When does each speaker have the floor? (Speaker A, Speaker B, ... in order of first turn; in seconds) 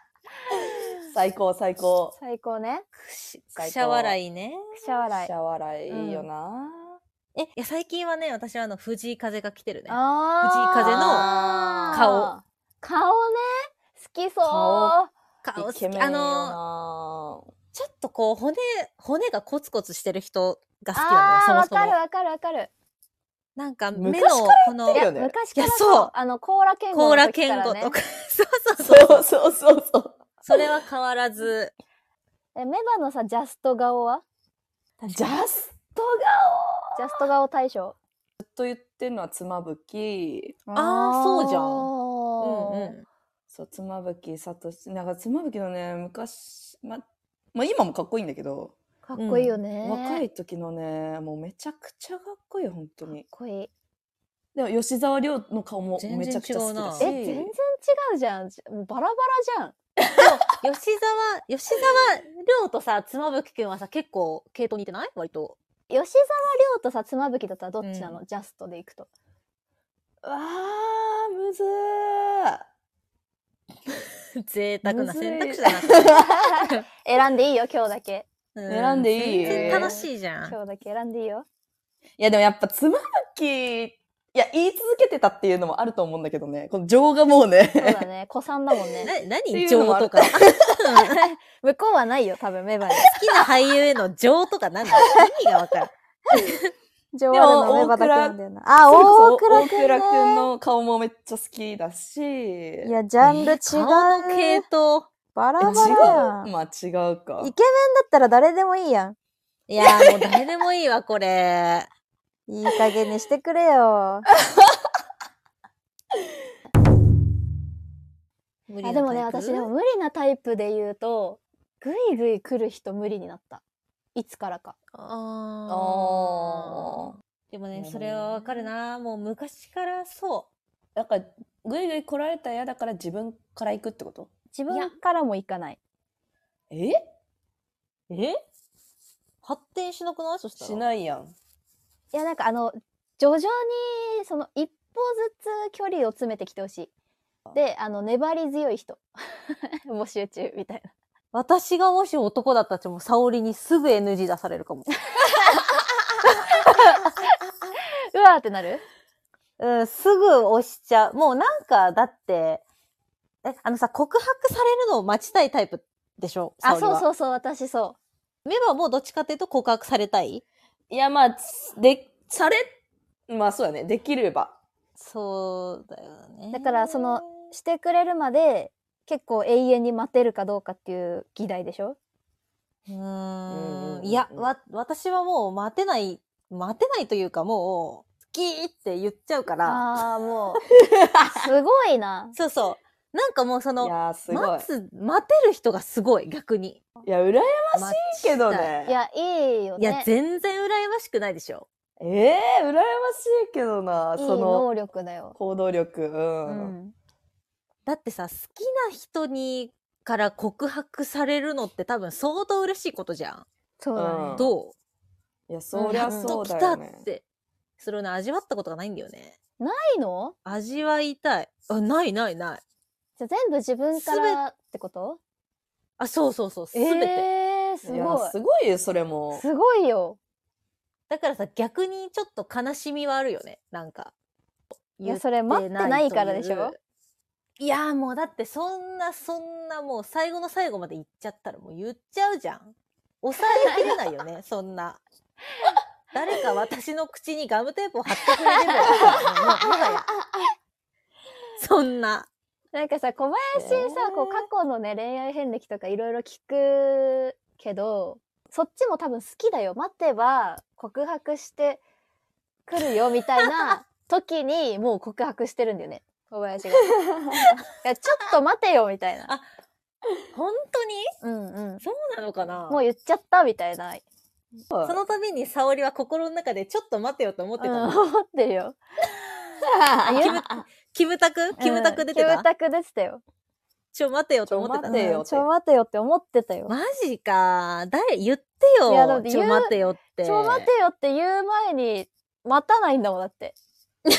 Speaker A: 1.1-2.2, 3.5-4.2, 5.1-7.0, 10.8-12.3, 14.4-15.0, 15.6-17.5, 23.9-25.4, 28.8-30.6, 35.1-37.1, 38.4-40.6, 43.5-48.7, 49.8-53.2, 54.5-57.5, 70.2-72.6, 74.8-76.3, 78.7-79.9, 82.2-88.0, 89.5-90.7, 97.3-103.5, 105.6-107.5, 125.7-127.1, 127.7-128.7, 130.9-134.3, 136.7-137.0, 140.6-141.3, 170.9-172.7, 173.3-174.6, 183.5-184.4, 190.8-191.4, 193.8-194.7, 197.1-198.9, 202.0-204.7, 205.3-206.8, 213.9-214.5, 215.5-217.1, 227.8-229.4, 248.9-249.2, 253.5-254.5, 274.7-275.0, 279.6-280.6, 284.5-285.5
Speaker B: 2.1-2.9, 4.7-5.3, 5.9-6.2, 9.9-15.1, 20.9-22.7, 24.9-28.0, 32.5-34.2, 37.0-38.0, 40.7-42.9, 49.0-50.2, 53.1-53.7, 57.0-59.8, 65.9-69.1, 76.1-78.3, 79.4-81.5, 87.8-89.1, 91.0-93.1, 97.1-100.5, 102.8-104.6, 105.3-106.5, 107.4-109.2, 112.5-114.3, 118.8-123.6, 124.1-124.8, 134.5-135.8, 142.1-146.9, 147.5-150.9, 156.7-157.3, 158.1-158.8, 166.6-168.0, 176.5-182.0, 189.6-190.6, 191.4-192.3, 198.8-200.1, 204.2-205.3, 206.4-206.9, 213.8-214.4, 215.9-216.4, 219.6-220.3, 223.2-225.2, 226.7-228.3, 229.3-230.2, 235.0-236.8, 248.8-249.2, 252.7-261.8, 262.6-266.9, 267.8-269.3, 271.2-271.8, 272.7-274.0, 277.6-278.8, 280.0-280.4, 281.6-283.2, 284.9-286.7, 288.9-293.6
Speaker C: 3.0-4.8, 7.3-11.3, 11.9-12.3, 15.4-16.6, 17.7-22.0, 23.6-26.1, 26.9-29.2, 30.4-31.7, 35.0-35.4, 40.8-41.9, 42.4-43.0, 49.1-49.6, 56.0-57.1, 60.2-65.5, 67.8-68.2, 74.4-76.8, 78.5-80.5, 89.0-91.1, 93.0-96.5, 103.2-105.1, 105.6-106.2, 109.7-111.9, 118.7-119.7, 124.9-130.5, 138.1-138.3, 139.4-140.8, 151.3-154.9, 159.6-162.6, 163.4-167.1, 168.4-170.4, 175.0-177.3, 182.9-189.8, 192.3-196.8, 197.8-198.7, 199.8-201.7, 207.8-213.4, 214.3-214.8, 215.8-217.2, 217.8-219.4, 220.4-222.6, 223.9-224.4, 226.0-227.2, 231.1-234.1, 234.9-236.8, 237.6-245.0, 246.1-250.1, 251.6-252.3, 270.3-271.1, 271.8-272.8, 274.8-278.0, 280.1-282.4, 283.9-285.1, 286.7-290.7